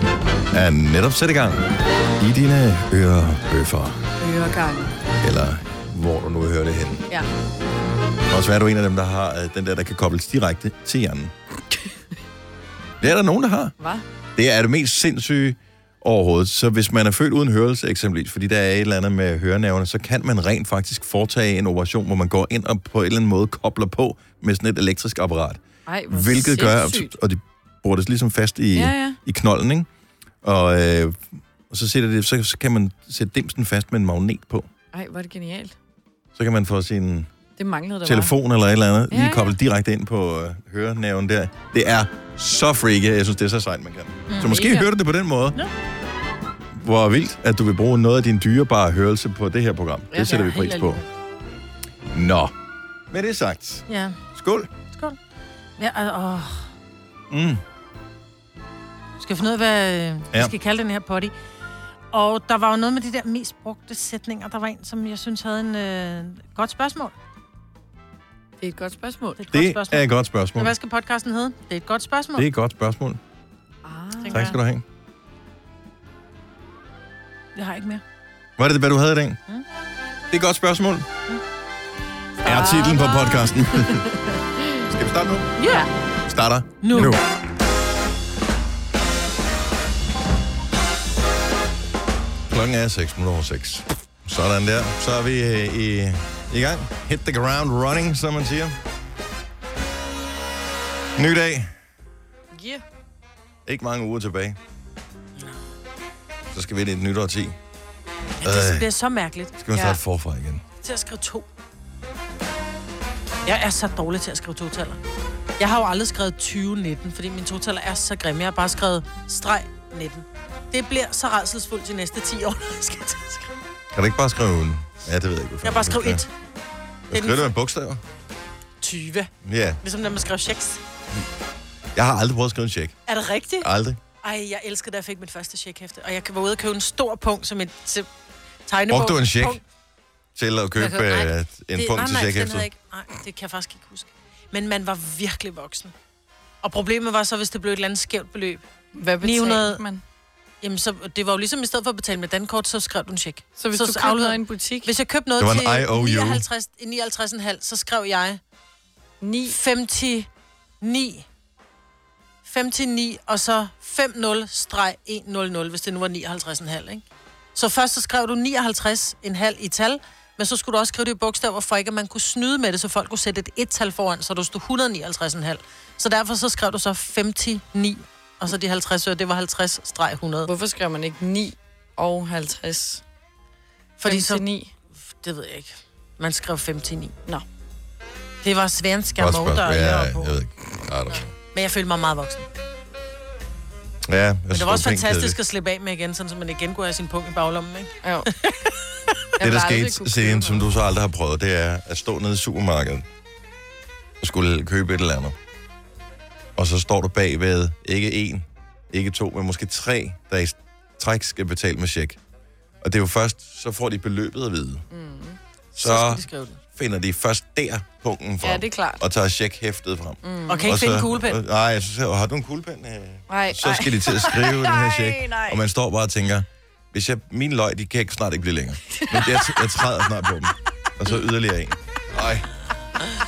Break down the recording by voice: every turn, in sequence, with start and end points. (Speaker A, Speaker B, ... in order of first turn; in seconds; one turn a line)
Speaker A: 0.5-1.6
Speaker A: 2.2-4.0
Speaker B: 4.2-4.9
Speaker A: 5.2-7.0
Speaker A: 8.3-11.3
Speaker A: 13.0-13.7
Speaker B: 13.8-14.0
Speaker A: 14.3-29.9
Speaker B: 25.9-27.1
Speaker B: 28.7-29.2
Speaker A: 30.4-34.7
Speaker B: 34.9-35.7
Speaker A: 36.3-37.3
Speaker B: 37.6-38.3
Speaker A: 38.0-45.6
Speaker B: 39.1-39.5
Speaker C: 44.3-44.5
Speaker B: 44.5-44.9
Speaker A: 46.7-51.0
Speaker C: 50.1-51.0
Speaker A: 52.1-52.5
Speaker A: 53.1-53.8
Speaker C: 53.9-54.2
Speaker A: 54.3-54.7
Speaker C: 55.8-56.7
Speaker A: 57.3-57.6
Speaker C: 59.2-61.3
Speaker C: 62.1-67.1
Speaker B: 68.6-69.4
Speaker C: 69.4-70.0
Speaker A: 69.5-70.7
Speaker C: 70.6-72.5
Speaker A: 72.3-73.2
Speaker B: 73.8-74.5
Speaker C: 74.2-74.6
Speaker A: 74.3-74.8
Speaker C: 77.5-78.0
Speaker A: 78.6-79.4
Speaker A: 80.3-81.1
Speaker B: 82.4-84.8
Speaker A: 82.4-84.0
Speaker A: 84.8-85.5
Speaker C: 85.6-85.9
Speaker B: 85.6-85.9
Speaker A: 86.2-87.2
Speaker C: 86.8-87.2
Speaker A: 92.5-98.8
Speaker A: 101.2-101.7
Speaker B: 102.5-102.8
Speaker A: 103.7-104.6
Speaker A: 106.5-107.6
Speaker C: 108.4-109.5
Speaker A: 108.4-108.9
Speaker A: 109.6-110.6
Speaker B: 109.7-110.0
Speaker C: 110.8-111.5
Speaker C: 113.5-115.0
Speaker C: 115.6-123.6
Speaker A: 123.9-126.2
Speaker C: 125.6-126.3
Speaker A: 127.1-128.0
Speaker C: 127.1-127.5
Speaker C: 128.8-129.3
Speaker A: 129.4-129.8
Speaker C: 129.8-130.8
Speaker A: 131.9-132.9
Speaker C: 133.1-133.7
Speaker A: 133.6-134.0
Speaker C: 134.2-138.1
Speaker C: 138.7-139.6
Speaker A: 138.9-139.6
Speaker A: 140.3-142.7
Speaker C: 140.8-145.9
Speaker C: 146.6-148.6
Speaker B: 148.9-150.0
Speaker C: 149.2-149.8
Speaker C: 150.6-158.4
Speaker B: 153.6-154.9
Speaker A: 155.4-156.4
Speaker B: 159.2-159.6
Speaker C: 159.5-160.3
Speaker C: 160.8-161.2
Speaker C: 162.4-167.0
Speaker C: 167.6-180.5
Speaker B: 180.5-183.0
Speaker C: 184.0-184.4
Speaker B: 184.1-184.7
Speaker C: 185.1-187.1
Speaker C: 188.4-190.3
Speaker A: 189.2-191.3
Speaker C: 191.1-192.5
Speaker A: 194.1-195.4
Speaker C: 194.5-198.8
Speaker B: 198.0-198.3
Speaker B: 199.4-200.7
Speaker A: 199.4-203.1
Speaker A: 204.2-205.3
Speaker A: 206.6-212.2
Speaker A: 212.8-214.8
Speaker B: 214.9-215.4
Speaker A: 215.8-216.2
Speaker C: 215.8-216.6
Speaker A: 216.7-232.4
Speaker B: 218.4-219.0
Speaker B: 220.2-220.7
Speaker C: 220.5-221.4
Speaker B: 223.3-225.6
Speaker B: 228.9-229.7